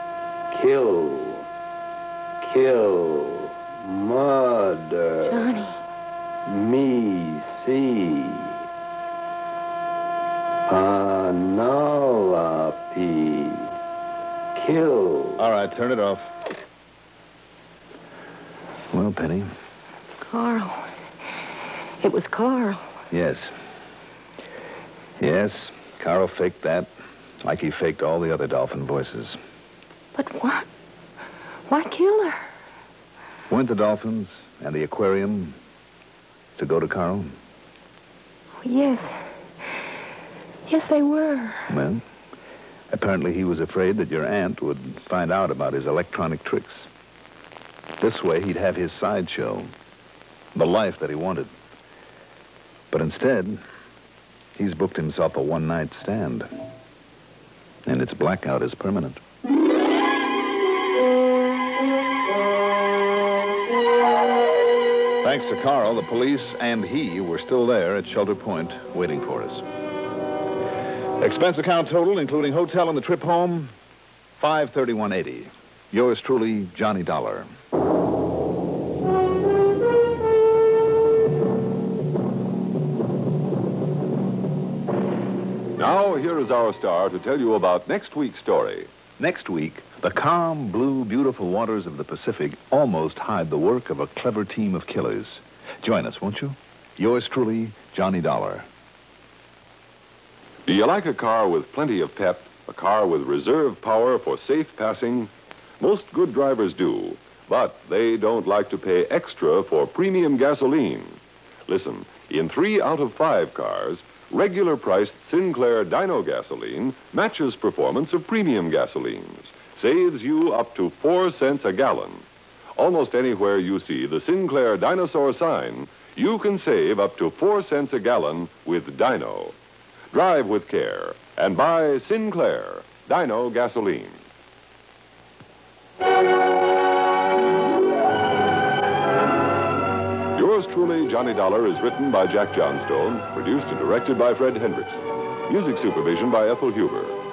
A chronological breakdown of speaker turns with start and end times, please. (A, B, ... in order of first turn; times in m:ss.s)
0:00.5-0:01.5 A
0:02.4-0:05.6 A
0:05.3-0:05.8 B
0:06.5-0:08.6 A
0:10.7-0:13.7 A
0:14.6-0:15.5 A
0:15.4-0:16.3 C
0:18.9-0:19.5 C
0:20.3-0:20.9 B
0:22.0-0:22.9 B
0:23.1-0:23.5 C
0:25.2-0:26.9 C
0:27.4-0:29.4 C
0:30.2-0:30.7 B
0:31.7-0:32.5 B
0:33.5-0:35.6 C
0:36.6-0:37.4 C
0:38.6-0:39.2 B
0:40.7-0:41.7 B
0:41.7-0:42.0 C
0:42.9-0:46.9 C
0:48.0-0:49.7 C
0:50.6-0:51.5 C
0:52.9-0:53.6 C
0:54.6-0:56.5 C
0:57.9-0:59.2 C
1:05.2-1:09.7 C
1:11.2-1:13.7 C
1:14.4-1:17.5 C
1:25.8-1:28.9 D
1:29.2-1:38.7 C
1:40.7-2:02.2 D
2:02.8-2:09.6 D
2:10.1-2:14.2 D
2:20.4-2:27.2 D